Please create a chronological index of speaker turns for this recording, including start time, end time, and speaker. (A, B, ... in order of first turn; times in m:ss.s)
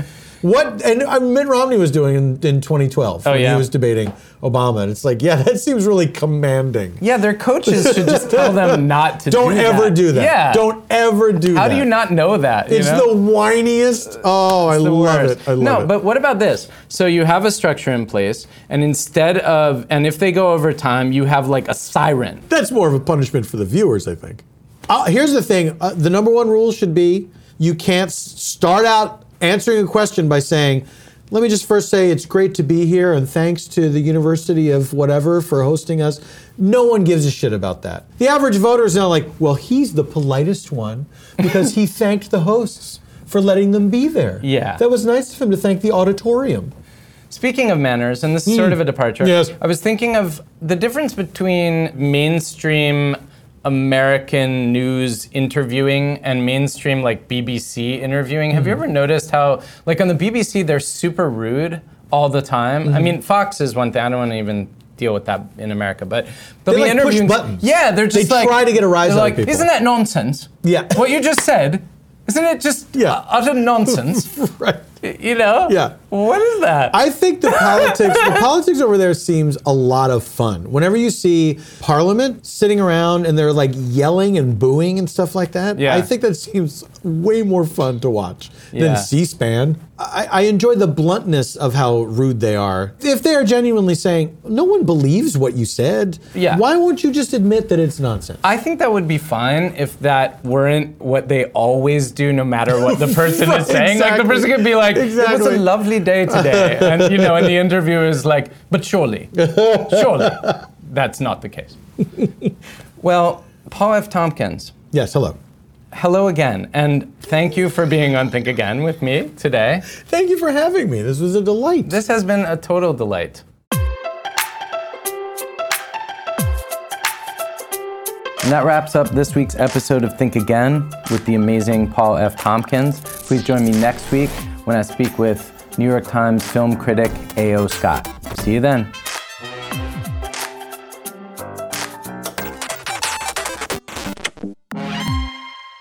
0:00.4-0:07.0 A
0:03.2-0:03.7 B
0:07.0-0:10.6 B
0:07.6-0:11.9 A
0:11.5-0:13.1 B
0:12.7-0:15.9 A
0:14.7-0:22.4 B
0:22.5-0:46.7 A
0:44.4-0:44.8 B
0:47.3-1:14.3 B
0:48.4-0:49.5 A
1:06.7-1:09.7 A
1:10.6-1:11.0 A
1:12.9-1:13.2 A
1:13.8-1:15.0 A
1:15.0-1:18.4 B
1:15.6-1:15.9 A
1:16.9-1:38.4 A
1:25.8-1:26.1 B
1:28.7-1:29.1 B
1:36.3-1:36.6 B
1:38.4-1:51.8 B
1:42.7-1:45.7 A
1:46.3-1:47.5 A
1:49.3-1:50.3 A
1:53.0-1:54.7 B
1:54.9-1:55.4 A
1:55.9-1:59.9 B
1:59.9-2:02.0 A
2:01.8-2:03.4 B
2:08.4-2:18.9 B